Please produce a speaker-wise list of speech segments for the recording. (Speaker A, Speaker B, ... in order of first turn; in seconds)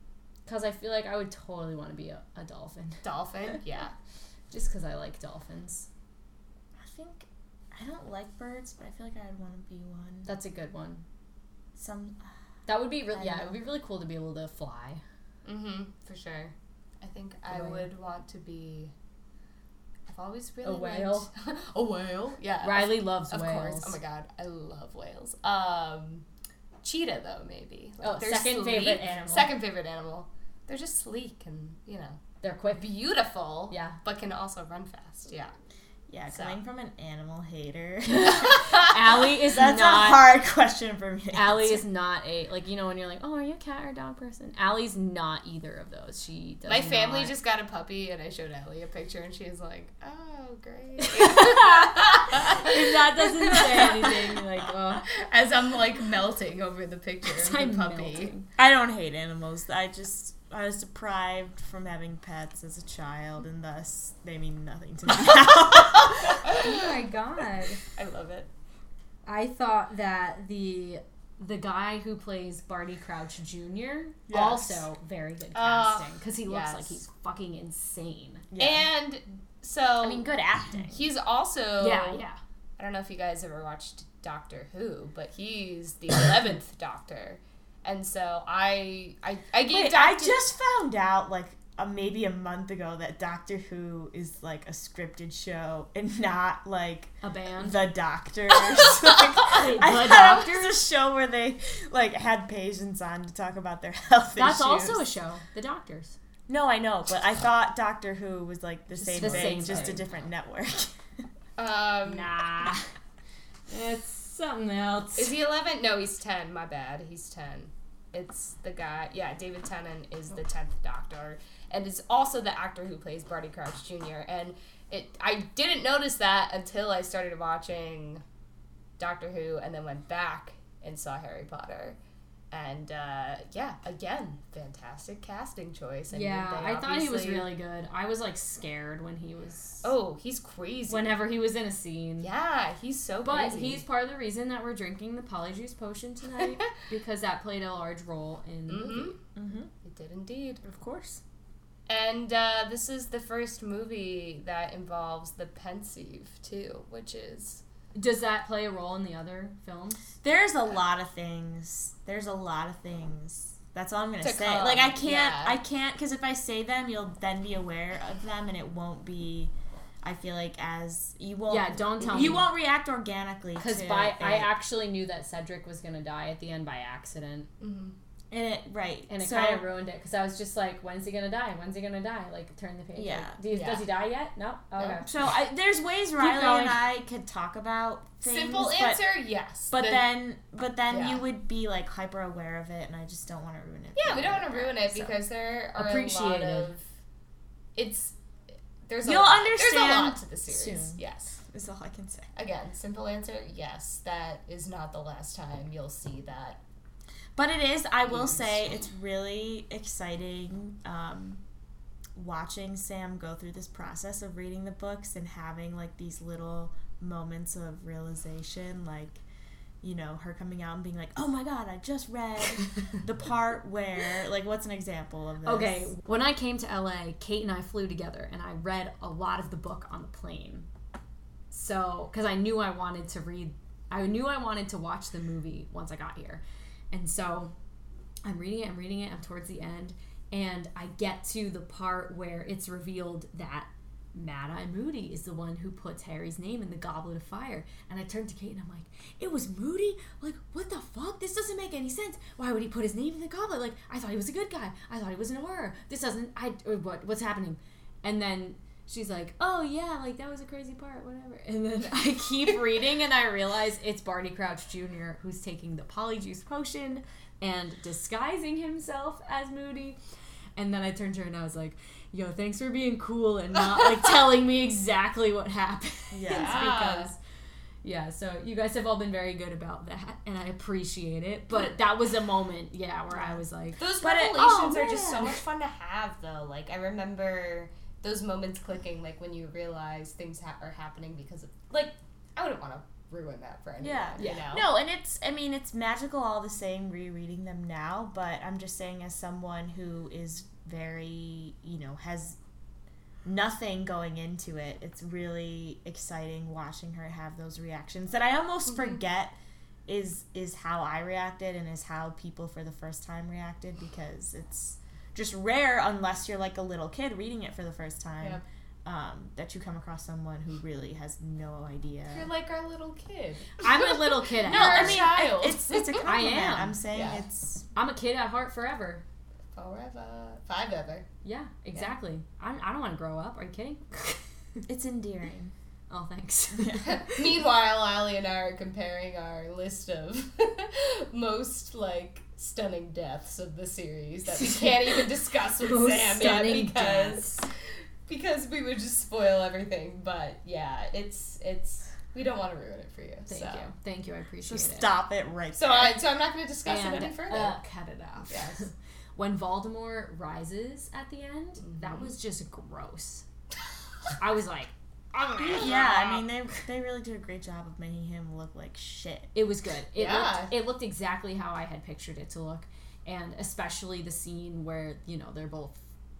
Speaker A: 0.5-3.0, 4.5-5.9, 10.3-11.0, 12.7-15.0, 17.5-17.9, 20.6-21.3, 22.6-24.0, 28.0-29.5, 32.4-32.9, 33.7-34.0, 38.1-40.3, 41.3-47.3, 51.0-55.1, 57.3-58.5, 66.5-67.8, 69.3-78.5, 81.8-82.4, 97.2-97.9, 99.4-100.6, 104.4-106.2, 109.0-110.1, 112.0-112.9, 113.7-115.4, 136.1-139.9, 140.9-142.3, 143.2-149.2, 157.9-160.0, 171.5-172.5, 173.6-177.5, 179.1-185.1, 186.2-186.8, 195.8-196.7, 225.4-230.7, 231.5-237.5, 238.2-270.0, 270.6-277.2, 277.8-283.9, 294.2-294.4, 323.6-325.1, 326.0-326.8, 327.8-329.0, 331.2-334.2, 335.9-337.0, 345.6-347.4, 353.3-354.9, 356.6-363.2, 364.2-366.3, 369.3-375.8
Speaker B: 3.0-3.9, 15.4-18.9, 20.1-26.2, 26.8-32.2, 32.8-35.5, 36.3-36.6, 46.7-54.4, 55.0-58.3, 66.5-66.8, 67.9-68.5, 75.5-77.0, 78.6-80.3, 80.9-82.2, 82.8-90.4, 109.1-110.0, 111.6-112.3, 115.2-128.2, 129.0-132.0, 132.5-137.5, 139.8-141.3, 142.2-143.8, 146.4-146.7, 148.7-149.2, 149.8-150.6, 151.9-157.6, 164.2-165.6, 172.1-172.4, 177.6-177.9, 183.5-183.9, 184.8-185.0, 188.2-190.2, 190.9-191.2, 194.0-196.8, 197.8-198.1, 198.9-201.4, 202.3-206.6, 208.1-208.7, 276.3-277.1, 283.8-294.7, 322.1-326.0, 326.9-327.2, 329.5-331.1, 336.8-347.5, 348.1-353.7, 355.5-357.6, 358.3-358.6, 361.6-362.1, 369.9-370.6
Speaker C: 6.8-10.3, 11.8-12.3, 13.1-13.6, 36.1-41.9, 58.6-66.5, 74.3-74.8, 78.5-78.9, 80.0-81.1, 89.7-105.0, 106.5-110.9, 149.4-149.7, 150.6-151.2, 160.2-174.5, 178.3-179.6, 183.0-183.4, 185.0-189.0, 189.7-195.2, 199.0-202.3, 207.3-211.4, 212.2-219.2, 219.8-225.9, 276.1-276.7, 284.0-285.3, 293.8-302.4, 303.2-309.4, 309.9-322.3, 324.5-327.7, 334.7-335.5, 336.6-336.9, 354.4-356.0, 365.4-369.3